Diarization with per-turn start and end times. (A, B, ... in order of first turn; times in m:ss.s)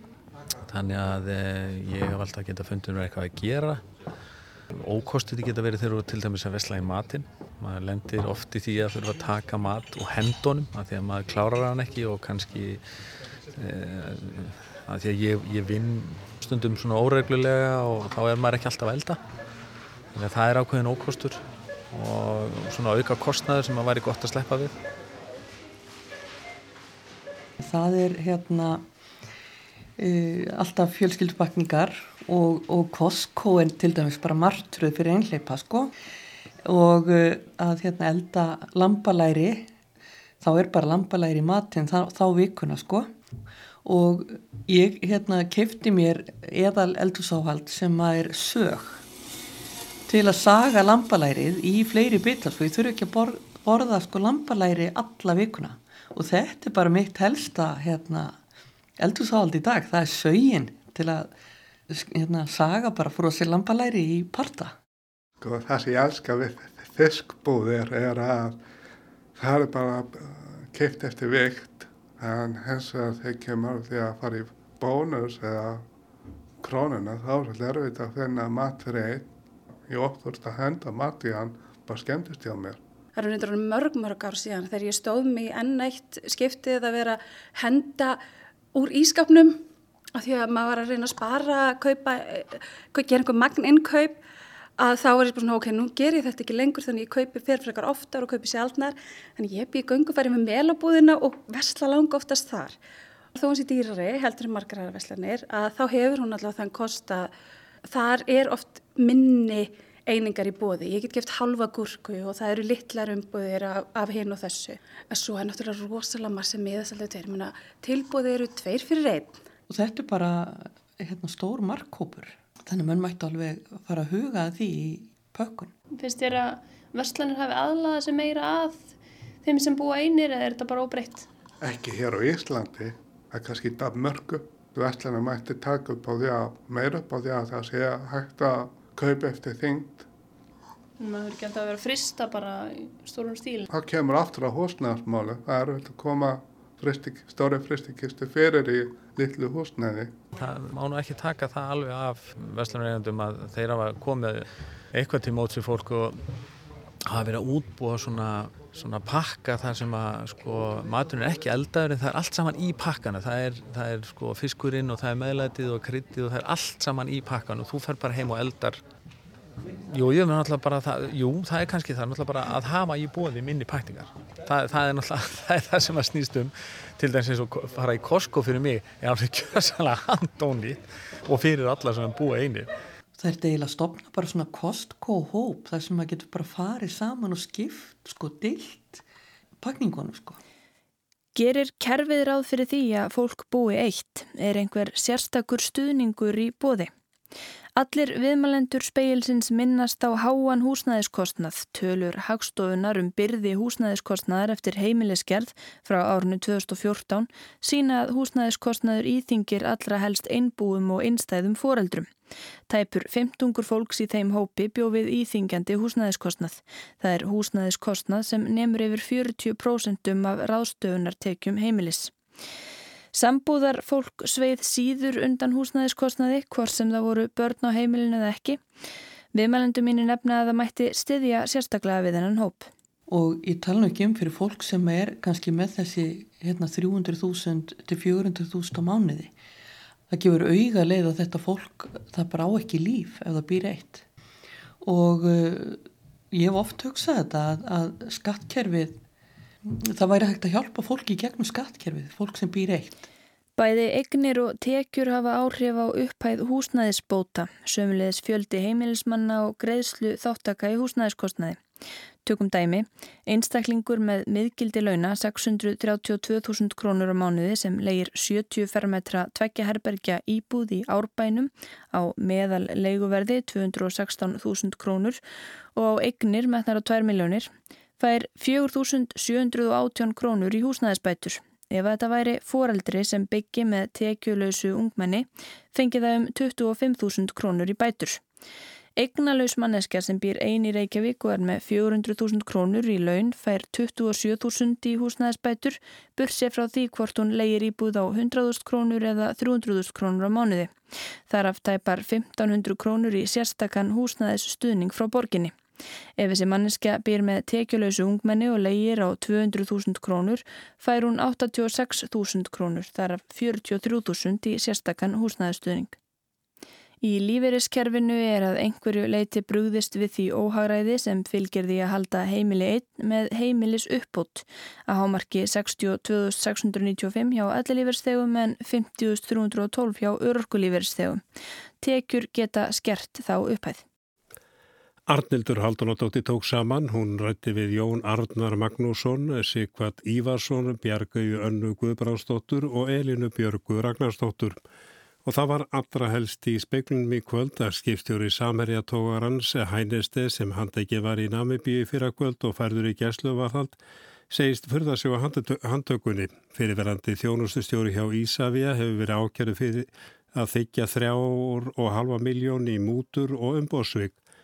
0:00.6-0:03.9 A
0:04.7-0:12.8 A
0:13.5-0:19.2 A
0:20.1-0:24.8 A
0:27.6-0:28.8 B
0:30.0-0:35.9 B
0:36.6-0:39.7 B
0:40.4-0:43.1 B
0:43.8-0:49.0 B
0:50.1-0:58.4 B
0:59.0-1:01.3 B
1:01.9-1:04.8 B
1:05.4-1:08.6 C
1:09.4-1:15.9 C
1:16.6-1:19.3 C
1:19.9-1:22.8 C
1:23.2-1:28.2 D
1:28.7-1:29.6 D
1:30.2-1:34.2 D
1:34.8-1:42.8 D
1:43.3-1:47.3 D
1:47.9-1:59.4 D
1:59.7-2:05.7 B
2:05.9-2:11.3 E
2:11.6-2:20.1 C
2:21.0-2:23.7 E
2:23.7-2:30.2 C
2:30.3-2:36.2 A
2:37.1-2:48.8 A
2:49.7-3:02.7 A
3:03.2-3:09.0 B
3:09.6-3:10.4 B
3:11.4-3:16.9 F
3:17.8-3:32.1 F
3:32.7-3:42.1 F
3:43.1-3:48.6 F
3:49.3-3:52.7 F
3:53.1-3:59.3 B
4:00.1-4:04.0 B
4:04.8-4:09.0 B
4:09.6-4:13.1 B
4:13.6-4:21.6 F
4:22.2-4:35.2 F
4:35.8-4:48.2 F
4:49.0-5:00.7 F
5:01.3-5:05.6 F
5:06.2-5:16.0 F
5:17.0-5:31.2 F
5:31.8-5:33.8 F
5:35.1-5:44.6 G
5:45.2-5:53.8 G
5:54.3-6:04.2 G